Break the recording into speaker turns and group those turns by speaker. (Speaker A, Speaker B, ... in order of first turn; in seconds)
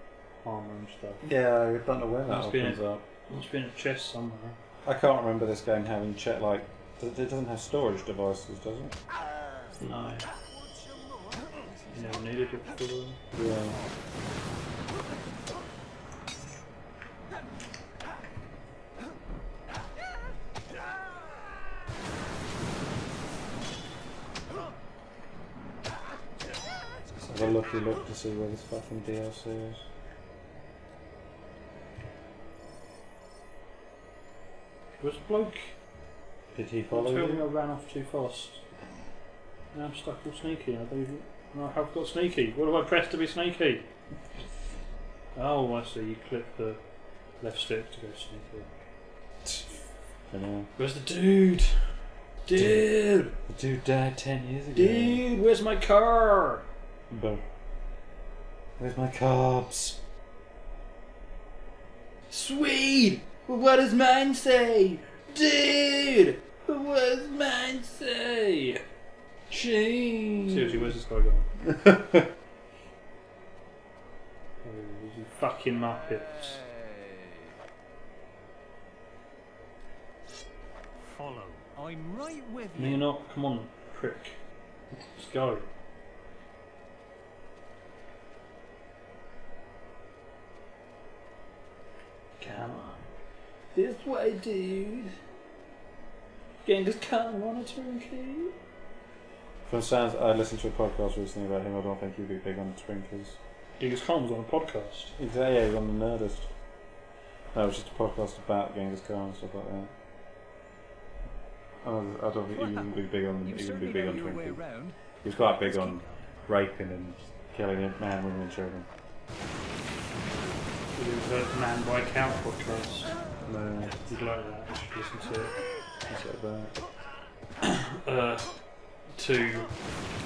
Speaker A: 0.4-1.2, 2.3-4.6, 9.8-10.3, 11.9-13.2, 35.0-35.7, 36.9-38.6, 39.7-43.9, 45.4-46.8, 47.4-48.7, 50.8-53.4, 54.7-56.6, 62.3-68.8, 70.4-71.5, 74.6-76.6, 82.8-84.4, 85.1-85.7, 92.4-93.1, 93.7-95.2, 96.6-98.5, 103.8-105.1, 120.9-123.1, 124.0-125.6, 127.6-128.6, 129.2-129.7
Speaker B: 1.2-3.0, 4.8-8.9, 13.3-13.8, 27.3-29.9, 36.5-37.5, 49.4-50.7, 53.5-55.2, 57.1-57.4, 58.8-60.0, 69.5-70.9, 71.6-72.3, 99.7-103.4, 105.2-106.5, 107.5-109.9, 111.8-114.6, 115.2-118.9, 123.5-124.0, 126.1-126.8
Speaker C: 81.1-83.0, 112.5-116.3